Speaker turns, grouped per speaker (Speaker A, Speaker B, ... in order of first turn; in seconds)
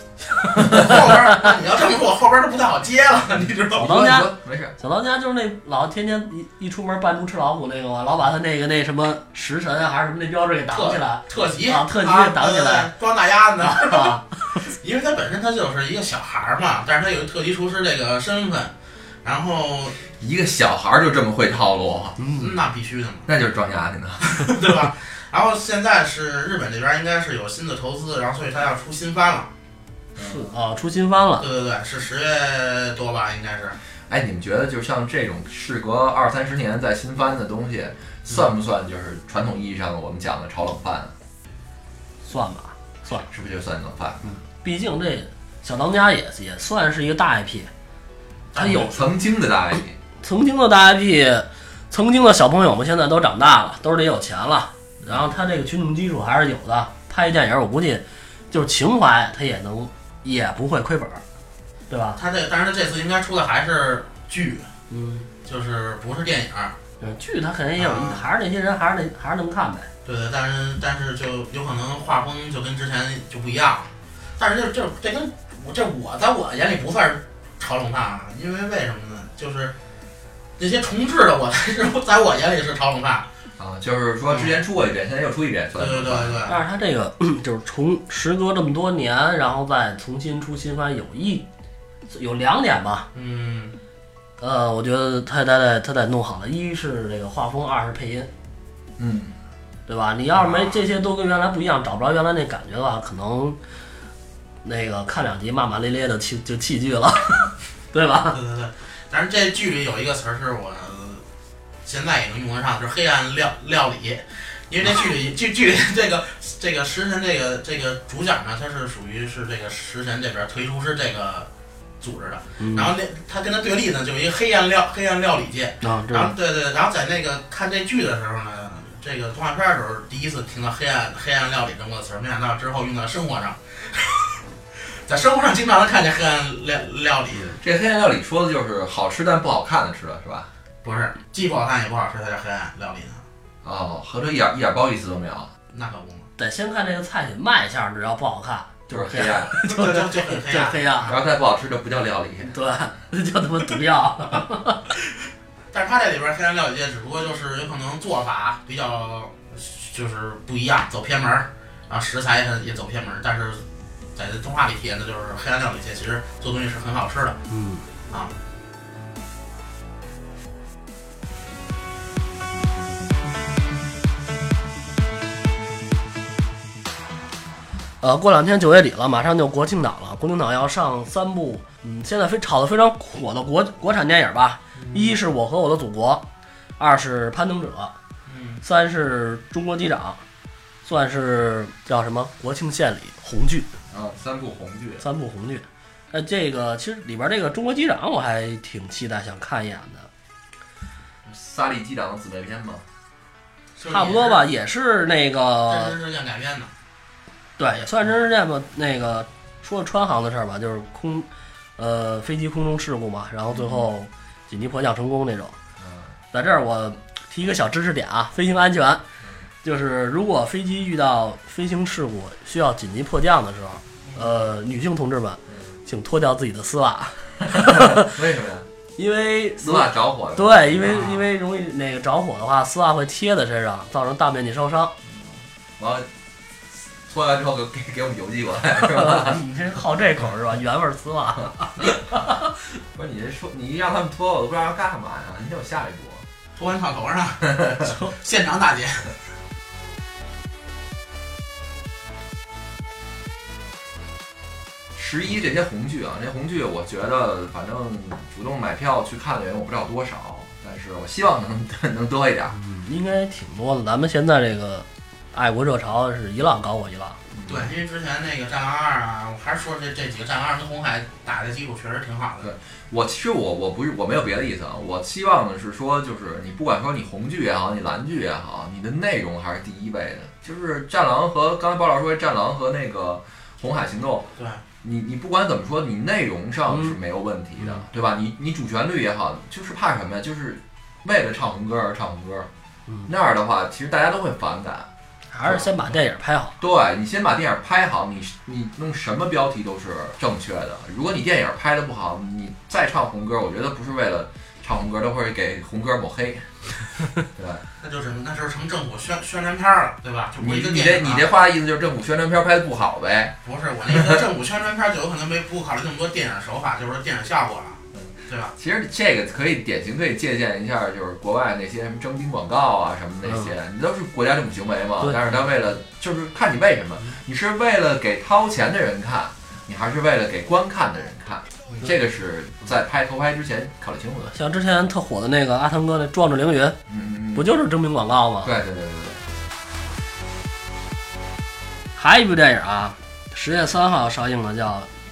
Speaker A: 0.6-3.9, 10.7-20.0, 22.4-23.3, 24.3-29.5, 31.4-33.8, 48.5-49.0, 62.2-64.7, 65.5-66.8, 67.8-68.2, 70.0-79.7, 80.6-83.3, 84.3-84.6, 85.8-86.6, 93.1-93.8, 100.4-100.7, 108.3-111.2, 111.8-121.5, 122.0-137.6, 140.8-143.2, 145.7-146.3, 149.6-151.2, 155.7-167.4, 168.1-168.3, 184.8-185.1, 188.3-188.6, 203.8-204.4, 205.7-206.7, 230.8-231.2, 246.6-249.2, 267.5-272.5, 284.4-284.6, 307.8-311.2, 313.4-318.5
Speaker B: 0.7-0.9, 3.8-12.9, 13.6-14.6, 22.2-22.5, 30.2-31.4, 42.2-43.3, 44.2-47.7, 50.2-61.2, 61.9-62.2, 64.9-65.3, 67.0-69.9, 86.5-91.5, 92.1-93.1, 94.4-98.3, 99.9-103.6, 104.6-108.4, 122.6-122.9, 125.8-126.3, 146.4-151.1, 152.4-154.8, 167.5-167.8, 178.0-186.2, 186.8-187.9, 188.6-190.2, 190.8-193.7, 195.0-200.1, 203.9-206.0, 207.6-215.6, 216.3-219.0, 219.6-228.2, 229.0-234.9, 238.9-242.2, 262.5-267.2, 286.7-286.9, 295.3-296.6, 334.3-336.8, 337.4-338.5, 342.0-344.9
Speaker C: 3.7-4.8, 20.2-22.2, 23.3-24.5, 30.2-30.5, 34.1-41.1, 43.1-44.3, 48.6-50.0, 83.6-86.5, 99.0-99.3, 137.6-140.5, 143.6-145.5, 148.9-149.6, 151.1-152.5, 193.9-195.0, 201.2-202.8, 213.5-213.8, 215.8-216.1, 227.5-228.7, 229.6-230.8, 235.0-236.1, 236.8-239.4, 242.9-246.3, 254.9-262.6, 267.3-267.7, 272.4-284.3, 284.8-292.5, 293.1-294.9, 295.4-295.9, 296.6-306.6, 307.2-307.6, 310.4-313.3, 313.9-314.2, 317.9-334.3, 336.9-337.5, 338.4-339.2